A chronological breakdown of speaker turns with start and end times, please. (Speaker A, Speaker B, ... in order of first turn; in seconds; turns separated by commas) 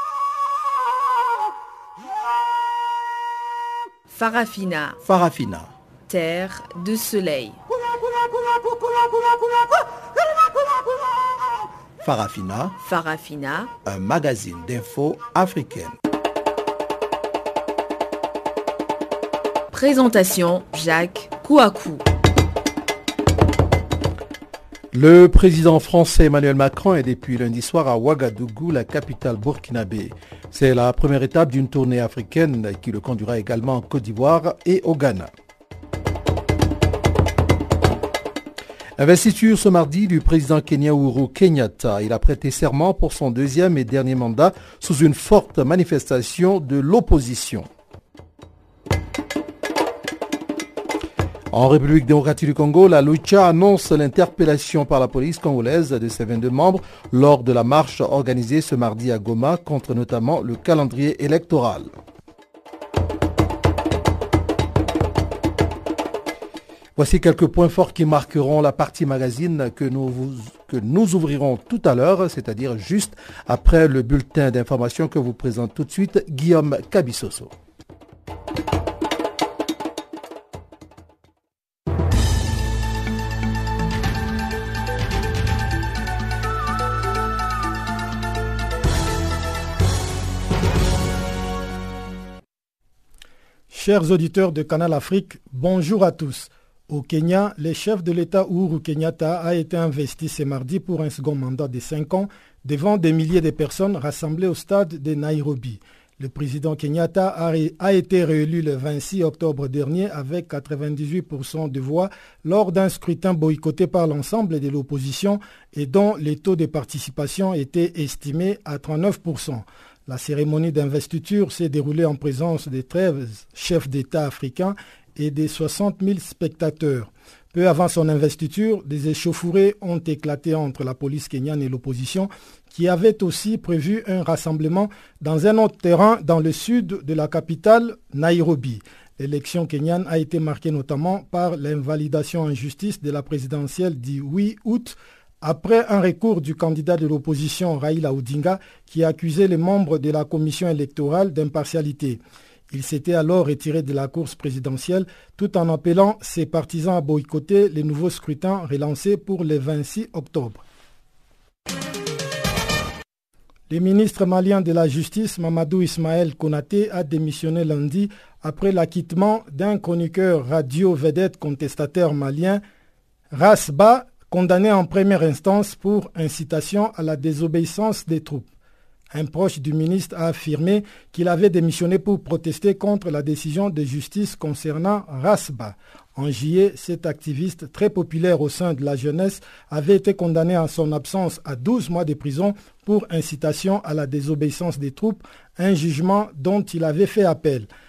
Speaker A: 4.1-5.0, Speaker B: 5.0-5.7, Speaker A: 6.1-7.6, Speaker B: 12.0-12.7, Speaker A: 12.8-13.7, Speaker B: 13.8-15.9, Speaker A: 19.7-22.0, Speaker B: 24.9-35.3, Speaker B: 39.0-47.7, Speaker B: 51.5-61.9, Speaker B: 67.0-77.5, Speaker C: 93.7-160.6, Speaker C: 163.7-172.6, Speaker C: 173.3-178.5, Speaker C: 179.1-197.7